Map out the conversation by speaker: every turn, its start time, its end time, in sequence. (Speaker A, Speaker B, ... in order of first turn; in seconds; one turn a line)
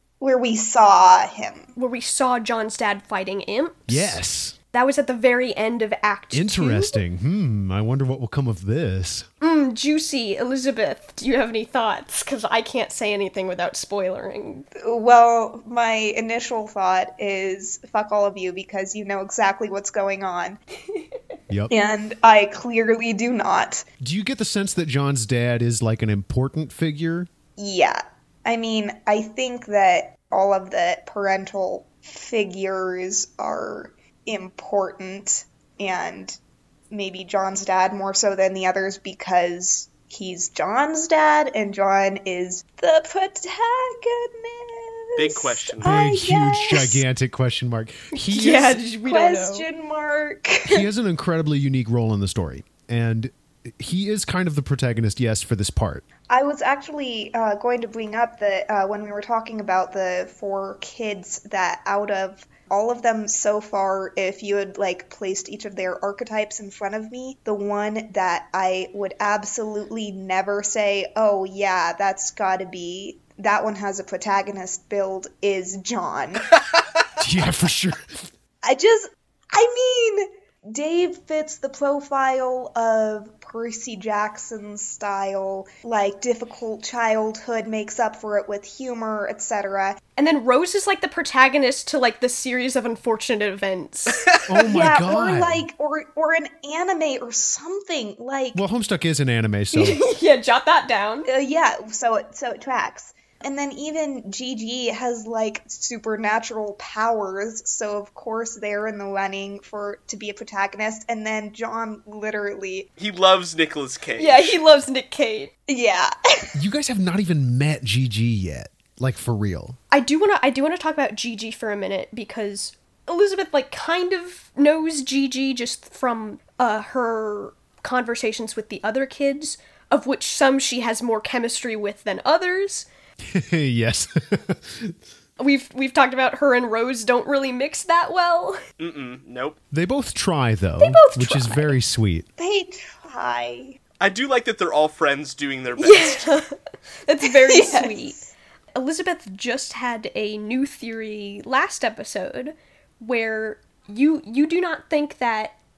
Speaker A: 0.2-1.7
Speaker B: 1.8-4.2
Speaker C: 3.9-4.5
Speaker B: 4.7-7.0
Speaker C: 6.3-9.2
Speaker B: 9.4-14.7
Speaker A: 14.8-20.6
Speaker A: 21.7-23.9
Speaker C: 24.0-27.3
Speaker A: 27.6-36.4
Speaker A: 36.9-47.0
Speaker D: 45.1-46.1
Speaker C: 45.8-48.8
Speaker B: 48.1-49.6
Speaker A: 49.0-50.9
Speaker C: 50.6-56.0
Speaker A: 56.3-76.5
Speaker C: 77.2-78.2
Speaker A: 78.6-90.0
Speaker B: 90.2-94.3
Speaker D: 94.1-94.4
Speaker C: 94.5-95.6
Speaker A: 94.7-98.6
Speaker C: 98.5-100.0
Speaker B: 99.7-101.3
Speaker A: 101.3-112.9
Speaker D: 113.0-114.6
Speaker B: 114.2-115.5
Speaker A: 115.7-116.5
Speaker C: 116.5-119.8
Speaker B: 119.9-132.9
Speaker C: 133.2-134.9
Speaker B: 135.4-138.6
Speaker D: 138.8-139.6
Speaker C: 139.7-142.3
Speaker B: 140.8-141.8
Speaker A: 142.4-143.8
Speaker D: 144.0-146.3
Speaker B: 145.8-148.2
Speaker A: 147.2-148.3
Speaker B: 148.7-155.5